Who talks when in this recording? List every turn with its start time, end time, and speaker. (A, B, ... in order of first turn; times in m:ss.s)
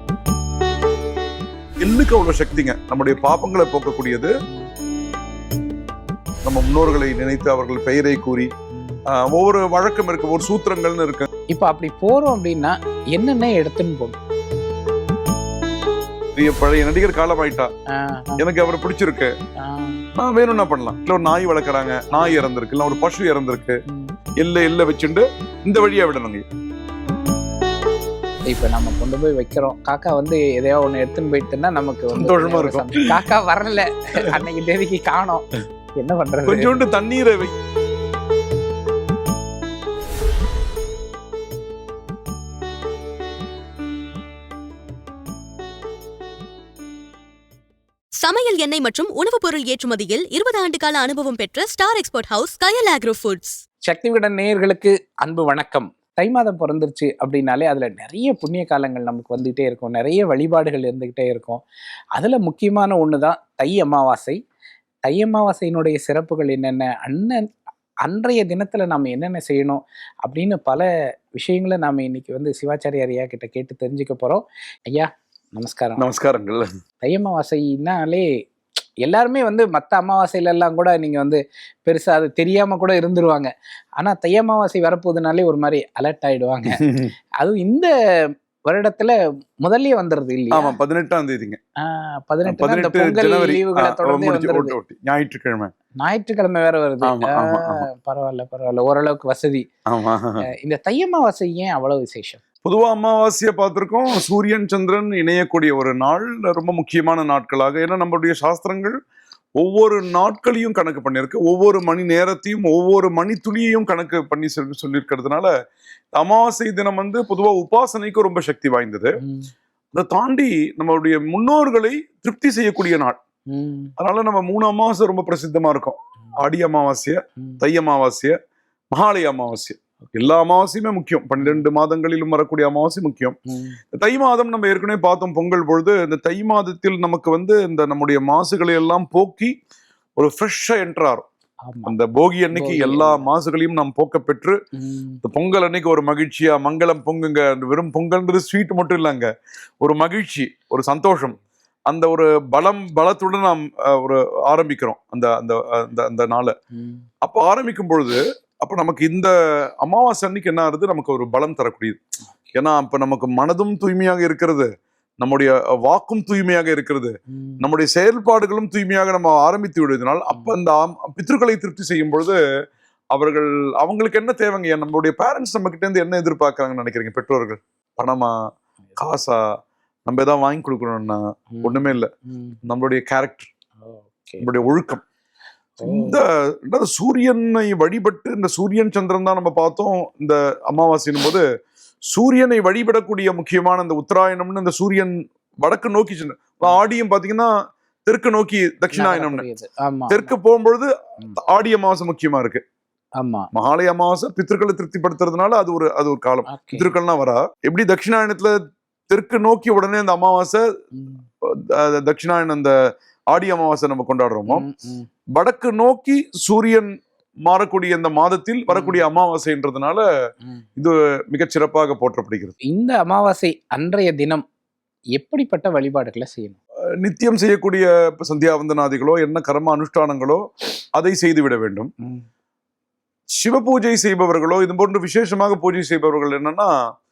0:01.8-0:04.3 A
0:06.4-0:08.5 A
0:09.1-0:11.3 A
0:11.5-0:14.2 B
0:16.3-0:17.7 A
0:17.9-0:18.4 B
0:18.4-0:19.3 A
0:19.6-0:20.0 B
0:20.2-0:23.8 A
0:24.4-0:26.4 A
0:28.5-0:35.4 B
0:32.1-0:33.2 A
0:36.0-0:36.8 B
0:36.4-0:37.5 A
0:48.2-0:53.6 C
0:53.9-1:01.6 B
1:02.2-1:04.4 B
1:05.1-1:07.5 B
1:08.0-1:16.1 B
1:16.0-1:16.6 A
1:17.0-1:18.3 B
1:19.0-1:26.9 B
1:26.7-1:27.1 A
1:27.4-1:27.9 B
1:28.7-1:30.8 B
1:30.5-1:31.6 A
1:31.8-1:34.8 B
1:32.4-1:35.7 A
1:36.0-1:39.6 B
1:37.0-1:37.9 A
1:39.9-1:40.4 A
1:40.4-1:42.4 B
1:42.6-1:49.0 A
1:49.6-1:55.5 A
1:56.1-1:59.1 A
1:59.2-1:59.5 B
1:59.9-2:03.2 A
2:03.5-2:03.9 B
2:04.0-2:08.3 A
2:08.9-2:13.4 A
2:10.0-2:10.3 B
2:13.5-2:13.8 B
2:13.9-2:19.5 A
2:20.2-2:21.2 A
2:21.6-2:21.9 B
2:21.8-2:24.6 A
2:22.5-2:23.3 B
2:24.8-2:25.2 B
2:25.2-2:29.3 A
2:29.8-2:36.5 A
2:36.7-2:37.0 B
2:37.2-2:42.0 A
2:42.5-2:44.7 A
2:45.2-2:52.4 A
2:47.3-2:47.6 B
2:53.1-2:58.3 A
2:59.0-2:59.4 A
3:00.1-3:02.1 A
3:01.5-3:02.6 B
3:02.6-3:03.5 A
3:03.8-3:04.7 B
3:04.4-3:05.0 A
3:05.8-3:06.2 B
3:05.8-3:11.4 A
3:12.1-3:17.5 A
3:18.1-3:19.4 A
3:18.9-3:20.3 B
3:20.1-3:22.6 A
3:23.2-3:23.5 B
3:23.5-3:28.5 A
3:26.5-3:26.9 B
3:29.1-3:30.6 A
3:31.0-3:31.2 B
3:31.7-3:32.7 A
3:33.3-3:34.6 A
3:34.5-3:35.1 B
3:35.4-3:36.9 A
3:37.4-3:40.0 A
3:38.7-3:39.0 B
3:40.8-3:42.5 A
3:42.7-3:44.4 B
3:45.2-3:46.6 B
3:47.0-3:50.4 A
3:51.0-3:51.9 A
3:53.4-3:56.7 A